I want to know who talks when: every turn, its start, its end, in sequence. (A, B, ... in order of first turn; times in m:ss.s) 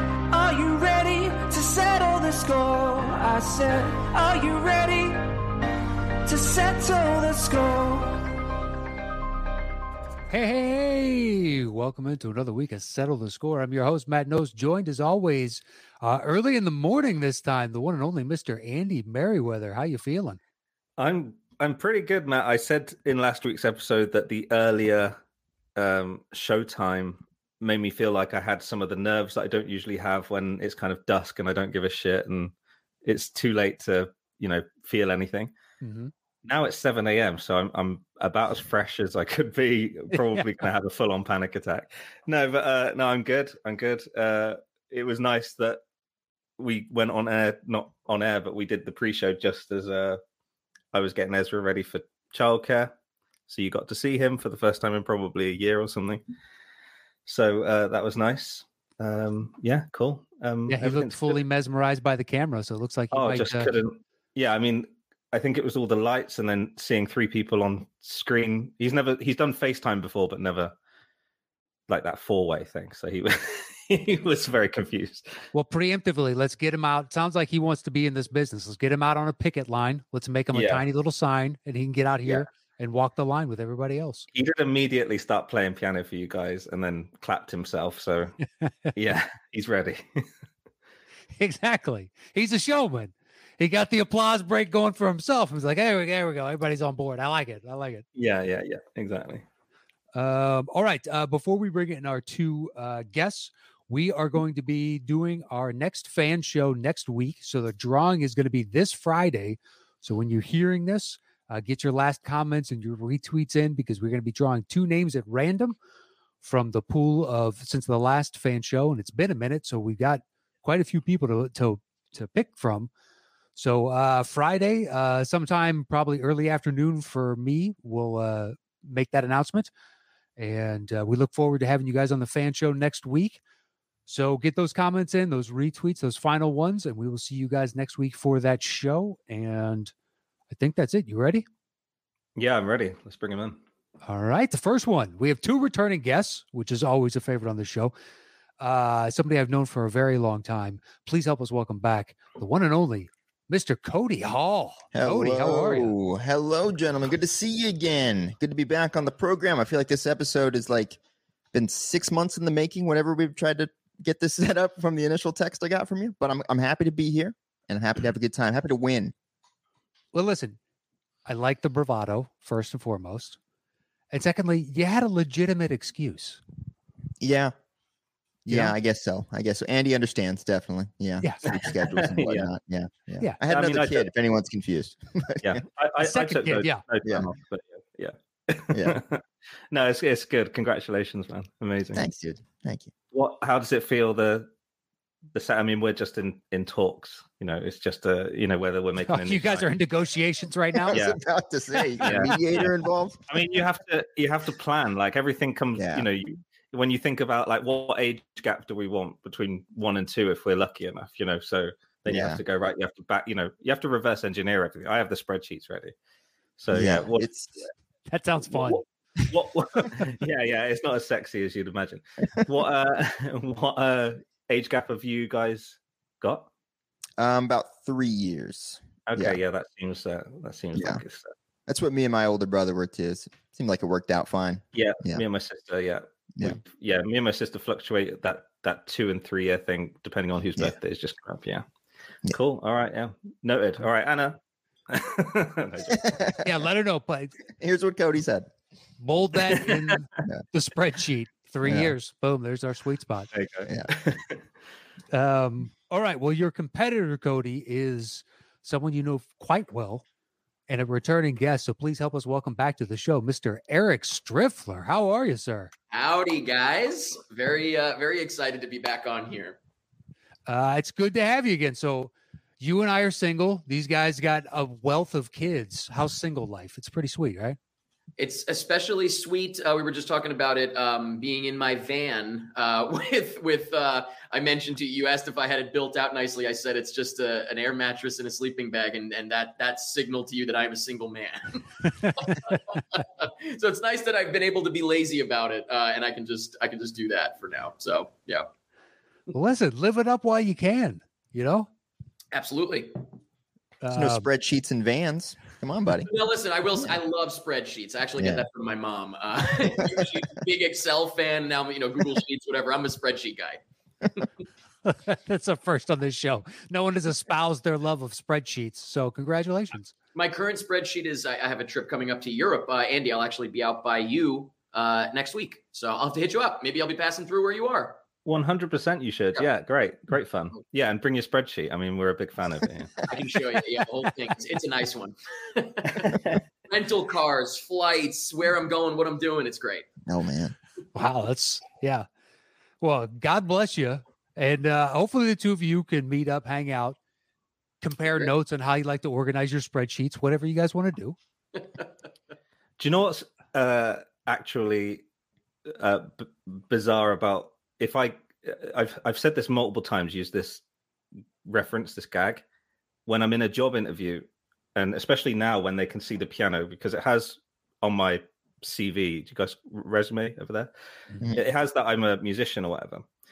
0:00.3-0:05.4 A
0:06.2-0:08.3 A
0:10.3-0:20.4 B
0:21.0-0:25.2 C
0:25.8-0:32.5 C
0:33.0-0:35.5 C
0:35.8-0:36.1 B
0:36.4-0:45.8 C
0:40.1-0:40.5 B
0:46.6-0:50.2 C
0:50.9-0:52.9 C
0:53.5-0:56.2 C
0:57.2-1:01.4 C
1:00.7-1:03.7 B
1:03.1-1:10.7 C
1:11.9-1:15.3 C
1:15.5-1:24.3 B
1:20.5-1:20.8 C
1:24.3-1:28.4 C
1:28.6-1:28.9 B
1:28.9-1:30.2 C
1:31.3-1:38.0 B
1:38.2-1:39.4 C
1:40.1-1:55.8 B
1:56.4-2:02.9 B
2:03.5-2:09.7 B
2:10.4-2:13.4 B
2:14.1-2:19.9 B
2:20.5-2:21.4 B
2:22.4-2:23.6 C
2:24.0-2:27.9 B
2:28.6-2:35.9 B
2:34.9-2:41.0 D
2:41.5-2:49.1 D
2:50.1-2:50.6 B
2:51.2-2:53.4 B
2:54.1-2:56.4 B
2:57.2-2:57.5 D
2:58.4-3:05.6 D
2:58.5-2:58.8 B
3:01.2-3:01.5 B
3:01.5-3:02.5 C
3:03.4-3:04.1 C
3:05.4-3:12.0 C
3:06.0-3:06.8 B
3:08.7-3:09.0 D
3:11.9-3:12.9 D
3:13.1-3:14.5 C
3:15.3-3:19.7 C
3:19.1-3:21.0 B
3:20.8-3:23.2 D
3:20.9-3:21.2 C
3:22.0-3:22.4 B
3:22.0-3:22.4 C
3:23.3-3:35.9 C
3:25.8-3:26.1 D
3:32.1-3:32.4 D
3:36.6-3:37.3 C
3:36.7-3:37.5 D
3:38.1-3:38.8 B
3:38.5-3:46.5 C
3:47.2-3:49.4 D
3:49.1-3:51.3 C
3:50.7-3:51.0 D
3:51.7-3:55.2 D
3:54.7-4:01.6 C
4:02.3-4:04.4 C
4:04.9-4:06.4 C
4:05.9-4:06.4 D
4:06.4-4:07.4 B
4:07.6-4:08.5 D
4:09.0-4:13.3 B
4:09.4-4:10.0 C
4:11.6-4:11.9 D
4:13.3-4:14.4 C
4:15.1-4:20.0 B
4:20.7-4:25.7 B
4:25.9-4:29.6 E
4:30.5-4:37.6 B
4:38.2-4:58.5 E
4:52.0-4:52.6 B
4:59.3-5:01.7 B
5:02.3-5:03.0 E
5:03.8-5:04.3 B
5:03.9-5:06.1 D
5:06.0-5:14.3 E
5:08.2-5:08.4 D
5:14.8-5:19.9 B
5:20.1-5:28.0 E
5:28.2-5:33.1 C
5:33.1-5:39.9 E
5:40.0-5:40.5 D
5:40.9-5:42.0 B
5:42.8-5:47.0 B
5:47.8-5:51.2 B
5:52.8-5:55.0 C
5:55.8-6:00.6 C
6:01.4-6:02.4 C
6:03.0-6:10.7 C
6:11.3-6:13.0 C